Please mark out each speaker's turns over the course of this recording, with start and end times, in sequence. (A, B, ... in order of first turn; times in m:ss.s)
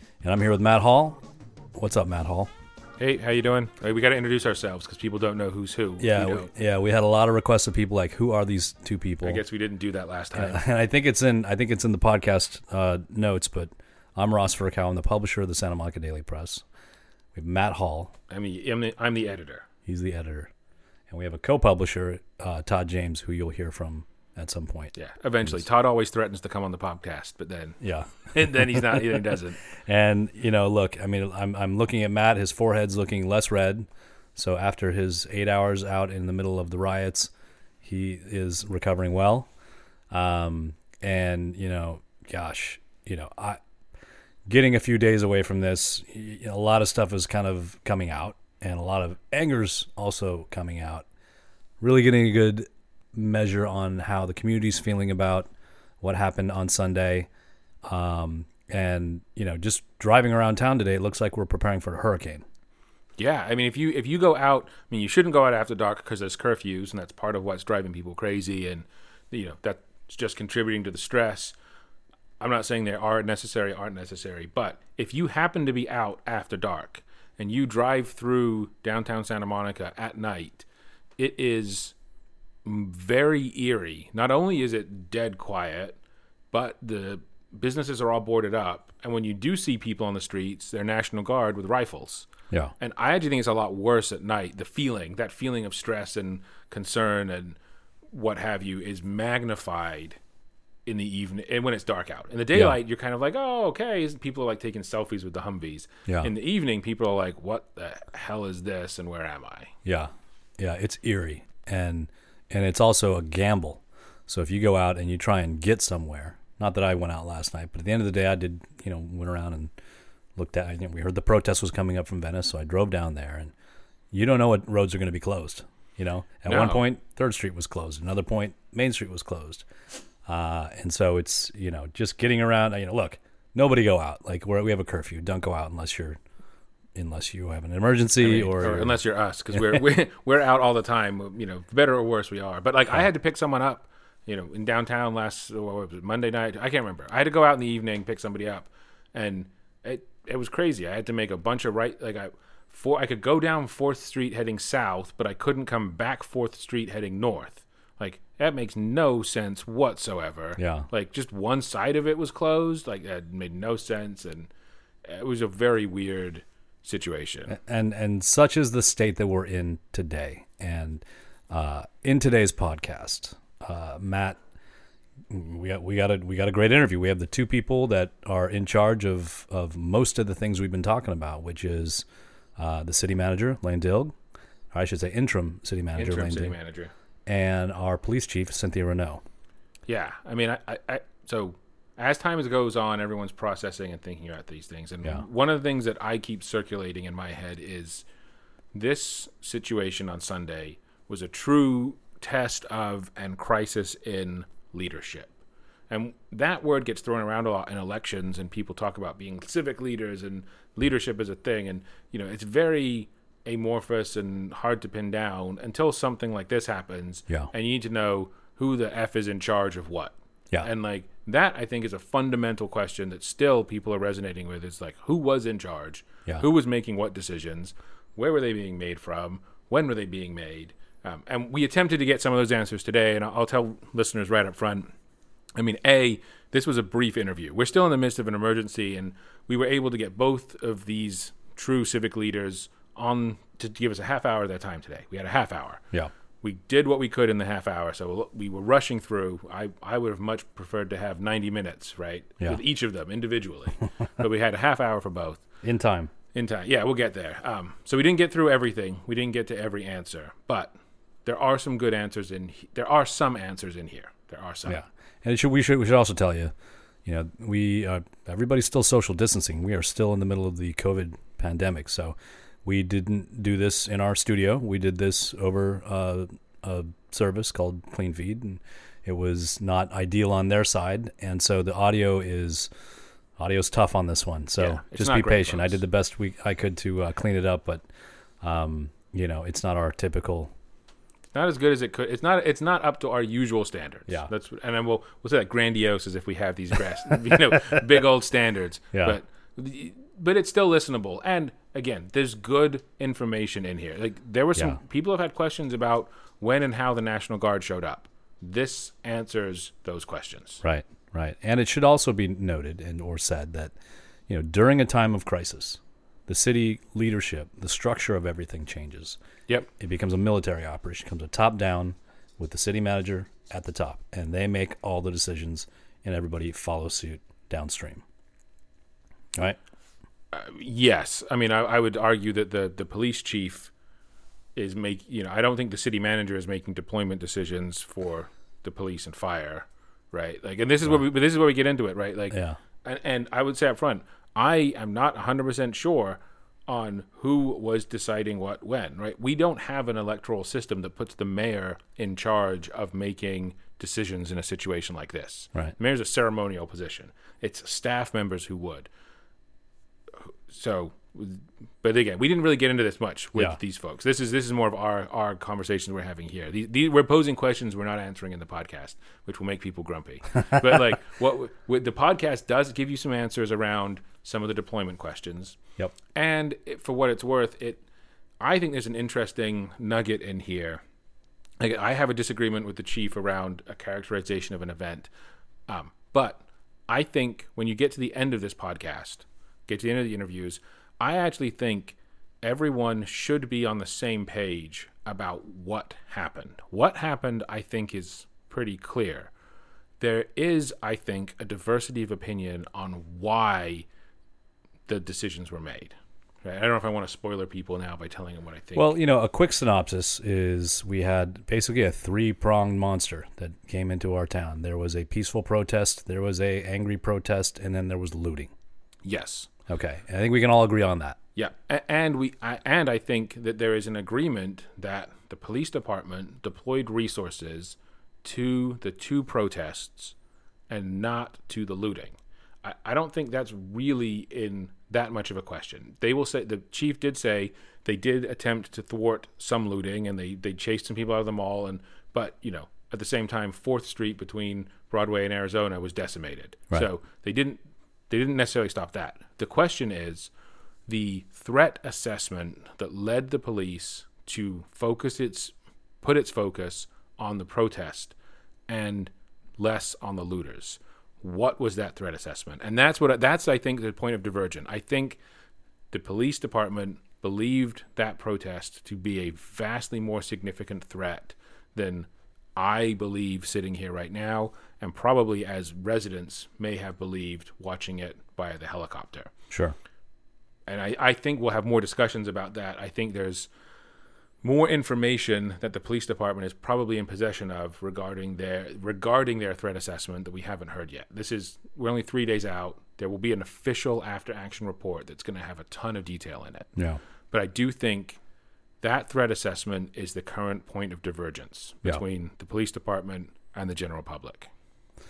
0:00.2-0:01.2 A
0:01.8-0:02.5 A
0:03.0-0:06.5 B
0:06.0-0:09.4 A
0:09.2-0:10.6 B
0:10.4-0:16.6 A
0:17.4-0:18.1 A
0:18.3-0:19.6 B
0:19.9-0:20.5 A
0:21.1-0:24.9 A
0:25.0-0:29.6 B
0:27.8-0:29.2 A
0:29.8-0:37.3 A
0:37.8-0:39.5 A
0:40.1-0:43.6 A
0:44.5-0:51.1 A
0:51.8-0:55.5 A
0:56.0-0:57.3 A
0:57.9-1:02.4 A
1:03.2-1:11.5 B
1:12.4-1:20.7 B
1:21.2-1:22.0 B
1:22.6-1:26.0 B
1:26.5-1:32.3 B
1:32.8-1:37.6 B
1:38.1-1:40.2 B
1:40.9-1:49.7 B
1:49.8-1:59.7 A
2:00.4-2:03.5 A
2:04.1-2:09.6 A
2:06.5-2:06.8 B
2:10.3-2:16.2 A
2:17.0-2:19.0 A
2:18.2-2:44.5 B
2:19.5-2:19.8 A
2:40.6-2:40.9 A
2:45.0-2:47.5 B
2:47.5-2:54.4 A
2:55.3-3:02.0 A
3:02.6-3:04.2 A
3:04.7-3:06.6 A
3:06.0-3:06.9 B
3:07.3-3:09.2 A
3:09.9-3:18.0 B
3:18.7-3:25.3 B
3:25.9-3:54.9 B
3:55.6-4:05.8 B
4:06.4-4:15.4 B
4:15.6-4:16.1 A
4:16.4-4:20.7 B
4:21.2-4:24.8 B
4:24.7-4:26.5 A
4:27.0-4:42.7 A
4:43.4-4:47.9 A
4:44.6-4:45.8 B
4:48.4-4:50.5 A
4:51.3-5:10.6 B
5:10.6-5:13.7 A
5:14.3-5:19.2 A
5:19.8-5:28.0 A
5:30.3-5:33.7 B
5:34.6-5:58.9 B
5:42.3-5:42.6 A
6:00.2-6:15.6 B
6:16.1-6:17.8 B
6:18.4-6:20.8 B
6:21.6-6:25.1 B
6:25.7-6:39.3 B
6:40.0-6:43.9 B
6:44.9-6:48.9 B
6:48.8-6:58.5 A
6:59.0-6:59.5 B
6:59.7-7:01.2 A
7:01.4-7:10.1 B
7:10.7-7:27.6 B
7:28.1-7:30.3 B
7:30.9-7:38.1 B
7:38.7-7:45.2 B
7:45.9-7:59.3 B
7:59.5-7:59.8 A
8:00.7-8:03.5 B
8:04.4-8:16.7 B
8:17.3-8:18.2 B
8:18.8-8:24.5 B